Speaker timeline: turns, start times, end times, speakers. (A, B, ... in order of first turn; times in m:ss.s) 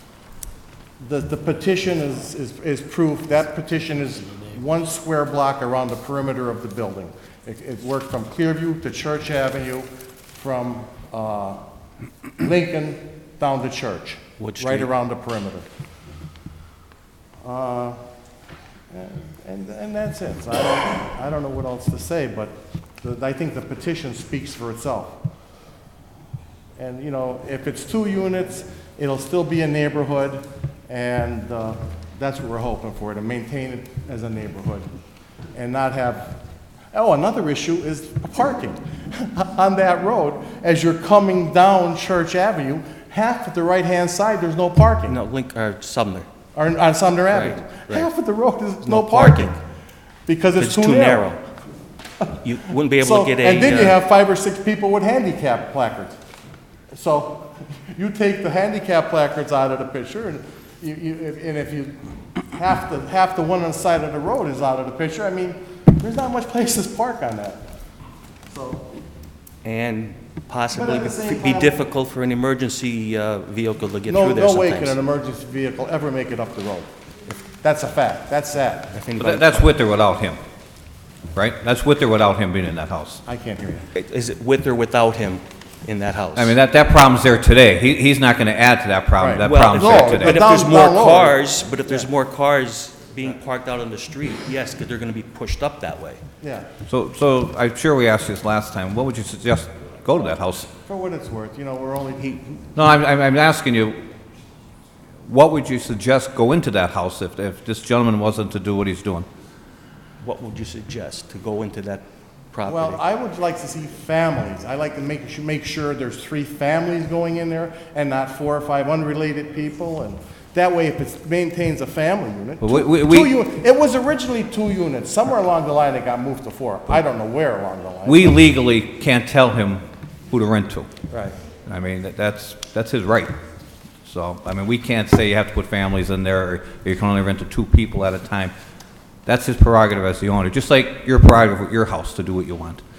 0:01.0-0:11.6 A
0:12.4-0:15.7 A
0:14.4-0:14.9 B
0:17.4-0:18.0 A
0:18.9-0:25.2 A
0:26.8-0:34.9 A
0:35.6-0:36.4 A
0:36.9-0:45.2 A
0:45.1-0:46.3 B
0:46.6-0:49.5 A
0:47.3-0:48.1 B
0:48.8-0:49.6 B
0:50.3-0:51.3 A
0:50.6-0:51.4 B
0:52.4-0:54.0 B
0:53.0-0:56.2 A
0:56.9-1:07.6 A
1:08.5-1:08.9 A
1:09.6-1:15.0 B
1:10.7-1:11.8 A
1:14.1-1:16.9 A
1:17.5-1:18.9 A
1:18.9-1:19.7 B
1:19.2-1:20.4 C
1:21.4-1:23.2 C
1:23.3-1:23.9 A
1:23.9-1:26.6 B
1:26.3-1:30.4 C
1:29.2-1:32.1 A
1:29.4-1:36.2 B
1:36.4-1:36.7 A
1:36.9-1:40.7 C
1:40.9-1:42.6 A
1:42.8-1:44.0 C
1:45.3-1:49.3 C
1:50.2-1:53.0 B
1:52.6-2:08.3 A
2:02.6-2:03.4 C
2:08.0-2:10.9 C
2:11.1-2:11.4 A
2:11.7-2:13.4 C
2:14.0-2:18.5 C
2:19.3-2:22.8 C